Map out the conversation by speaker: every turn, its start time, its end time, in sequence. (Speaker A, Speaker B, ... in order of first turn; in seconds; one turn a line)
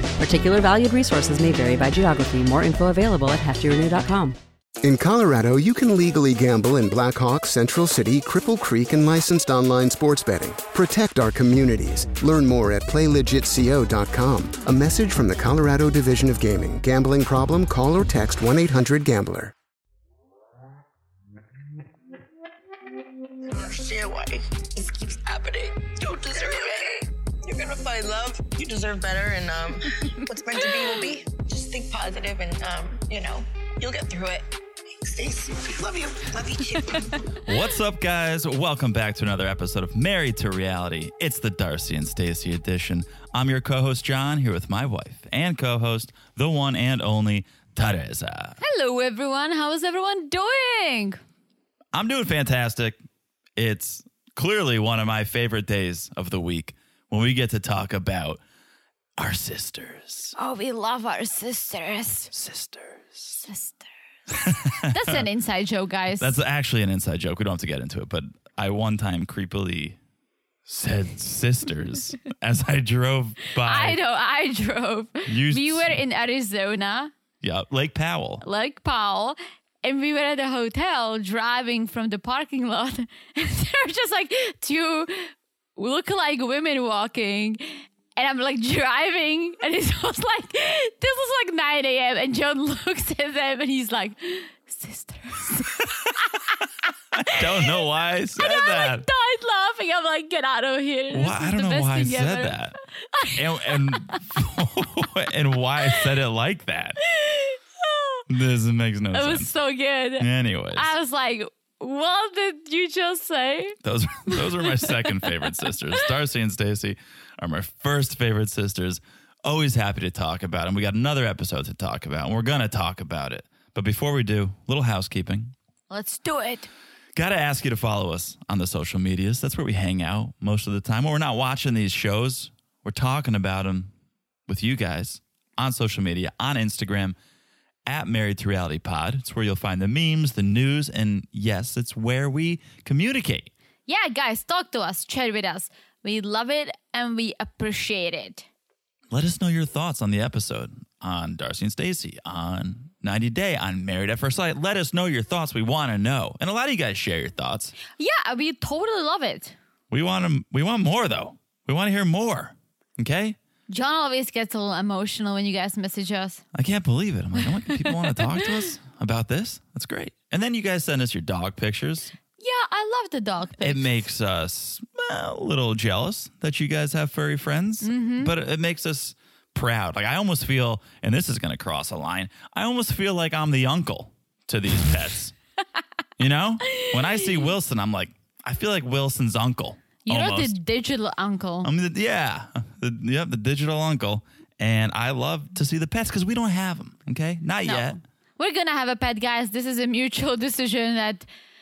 Speaker A: 0.2-4.4
Speaker B: 4.8-19.5
Speaker C: 23.5-37.2
Speaker D: 37.4-48.6
Speaker E: 48.6-51.2
Speaker D: 51.9-53.0
Speaker D: 53.5-58.4
Speaker D: 59.2-60.3
Speaker E: 60.4-62.3
Speaker D: 62.3-63.4
Speaker E: 63.4-63.8
Speaker D: 64.3-65.2
Speaker E: 64.8-66.3
Speaker D: 66.2-70.0
Speaker D: 70.7-74.0
Speaker E: 73.6-77.1
Speaker D: 75.2-76.0
Speaker D: 77.4-78.4
Speaker E: 78.4-96.5
Speaker D: 97.2-99.0
Speaker E: 97.3-104.2
Speaker D: 101.1-102.8
Speaker D: 103.3-107.0
Speaker E: 107.0-108.2
Speaker D: 108.3-109.5
Speaker E: 109.1-113.8
Speaker D: 110.2-110.9
Speaker D: 113.8-125.5
Speaker E: 114.3-115.7
Speaker E: 125.9-126.7
Speaker D: 127.1-133.9
Speaker D: 134.5-137.2
Speaker D: 137.8-143.5
Speaker E: 143.9-148.4
Speaker D: 149.1-157.8
Speaker E: 157.9-159.5
Speaker D: 159.9-163.3
Speaker E: 163.7-166.4
Speaker D: 166.5-172.1
Speaker E: 167.6-168.7
Speaker E: 172.4-174.0
Speaker D: 173.6-185.3
Speaker E: 177.8-178.3
Speaker D: 186.2-190.5
Speaker E: 186.6-187.5
Speaker E: 190.0-191.7
Speaker D: 191.6-197.9
Speaker E: 197.7-201.2